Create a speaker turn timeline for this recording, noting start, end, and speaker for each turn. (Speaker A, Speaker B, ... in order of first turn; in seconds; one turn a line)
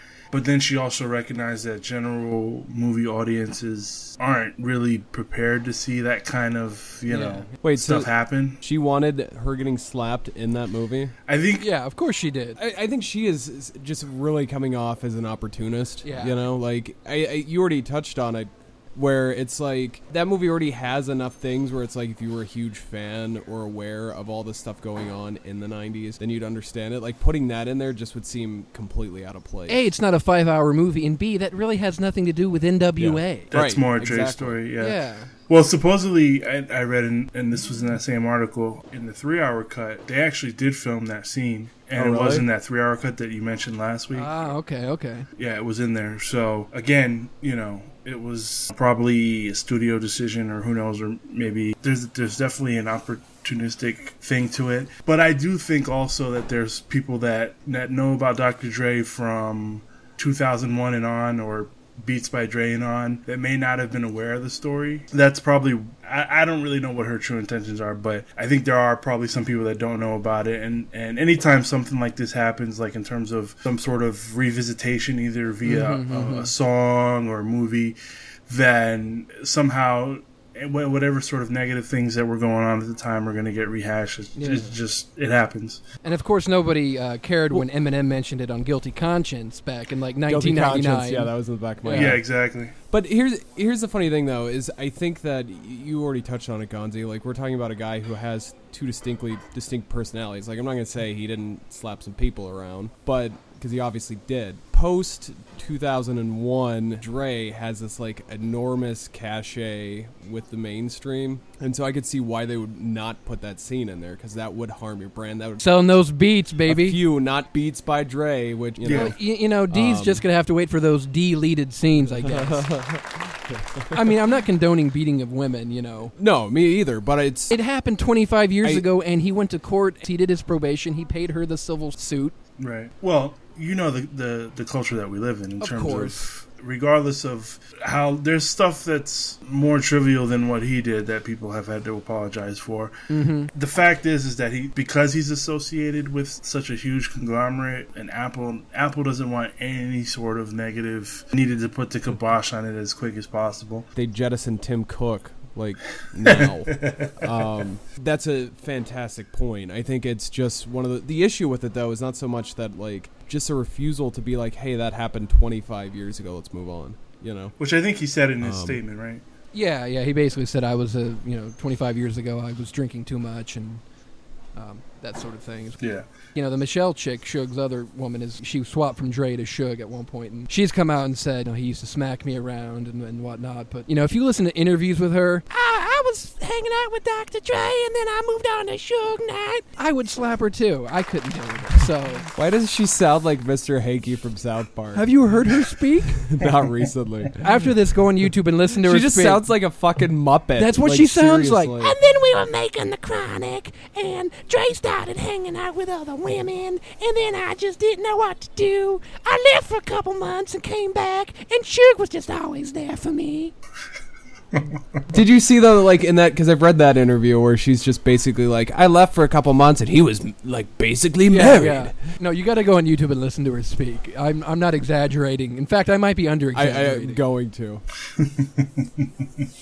Speaker A: 0.3-8.6
Speaker B: 7.1-7.5
Speaker C: 7.6-11.1
Speaker A: 11.3-11.7
Speaker B: 11.6-12.6
Speaker C: 12.6-29.9
Speaker B: 16.0-16.4
Speaker B: 29.7-33.5
Speaker C: 33.0-34.6
Speaker A: 33.5-44.3
Speaker B: 34.8-35.3
Speaker C: 42.0-42.5
Speaker B: 44.1-45.3
Speaker A: 45.4-78.0
Speaker B: 75.6-76.5
Speaker A: 78.5-85.8
Speaker B: 84.4-84.7
Speaker B: 86.0-92.2
Speaker C: 90.3-92.3
Speaker A: 91.9-92.8
Speaker C: 92.9-115.8
Speaker B: 115.6-117.0
Speaker C: 116.7-119.2
Speaker B: 118.8-122.7
Speaker A: 118.8-119.2
Speaker C: 119.7-120.2
Speaker C: 122.2-123.9
Speaker B: 123.9-126.1
Speaker C: 126.2-127.5
Speaker B: 127.5-132.3
Speaker A: 132.6-142.9
Speaker B: 135.6-136.2
Speaker B: 143.1-143.5
Speaker A: 143.5-153.9
Speaker C: 153.9-167.6
Speaker A: 156.3-157.3
Speaker A: 167.6-169.2
Speaker C: 168.4-168.8
Speaker B: 169.5-173.8
Speaker B: 174.6-175.8
Speaker A: 175.8-176.1
Speaker B: 176.3-192.3
Speaker C: 192.3-195.1
Speaker B: 194.9-196.2
Speaker C: 196.2-197.4
Speaker B: 197.4-199.5
Speaker C: 198.7-202.0
Speaker B: 200.6-213.5
Speaker C: 215.1-221.9
Speaker B: 221.3-227.2
Speaker C: 226.5-227.8
Speaker A: 228.2-229.4